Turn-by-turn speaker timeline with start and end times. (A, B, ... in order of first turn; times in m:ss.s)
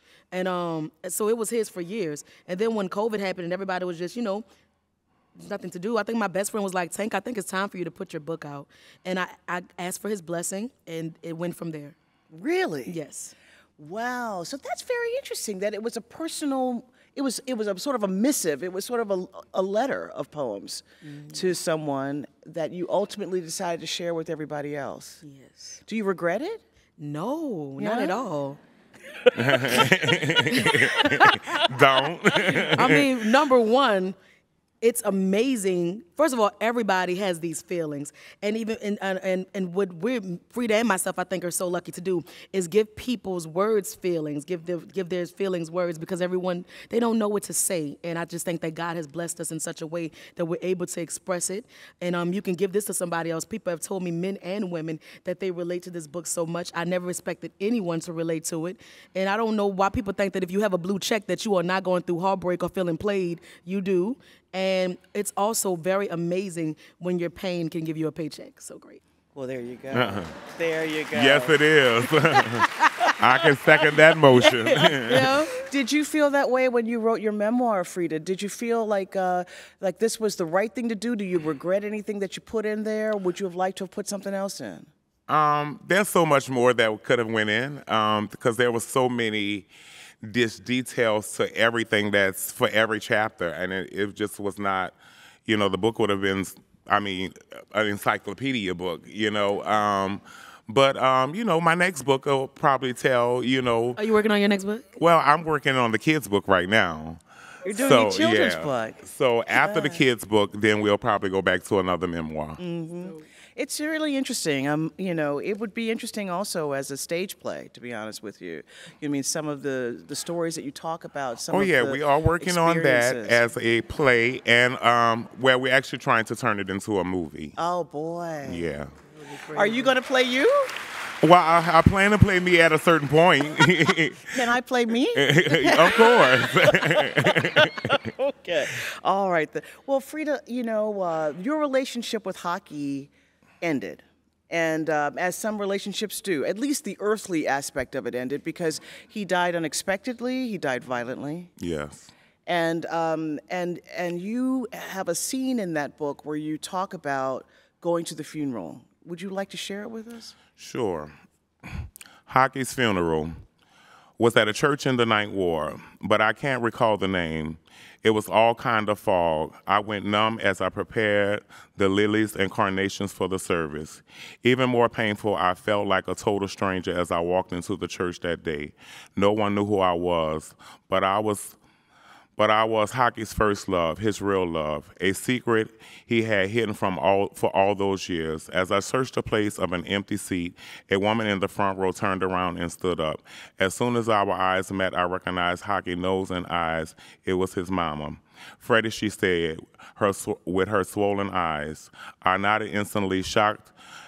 0:00.3-0:04.4 A
0:05.4-0:11.9 A
0:12.3-0:13.0 B
0:12.8-0:13.3 A
0:13.8-0:25.2 B
0:21.0-0:21.5 A
0:25.2-0:25.8 A
0:25.8-0:26.6 B
0:27.0-0:28.6 A
0:27.8-0:28.2 B
0:29.1-0:31.2 B
0:29.3-0:33.1 C
0:30.6-0:31.3 A
0:32.7-0:34.2 A
0:34.8-1:09.0 A
1:09.3-1:11.6 B
1:09.9-1:10.3 C
1:11.1-1:15.3 C
1:12.3-1:13.1 A
1:14.4-1:15.6 A
1:15.6-1:24.9 B
1:25.3-1:29.7 C
1:30.2-1:34.9 C
1:35.4-1:44.0 C
1:44.0-1:45.0 A
1:45.0-1:47.2 C
1:47.6-1:49.0 B
1:47.8-1:52.6 C
1:49.5-1:50.0 B
1:52.6-2:03.4 B
2:01.5-2:07.6 C
2:07.6-2:08.6 B
2:08.4-2:08.9 C
2:09.1-2:10.0 A
2:09.6-2:10.7 B
2:11.2-2:14.5 C
2:14.3-2:23.1 B
2:15.1-2:18.1 C
2:23.6-2:31.5 B
2:31.6-2:32.1 C
2:32.4-2:40.4 B
2:40.6-2:41.1 C
2:41.6-2:43.4 C
2:44.2-3:01.6 C
3:02.4-3:23.7 C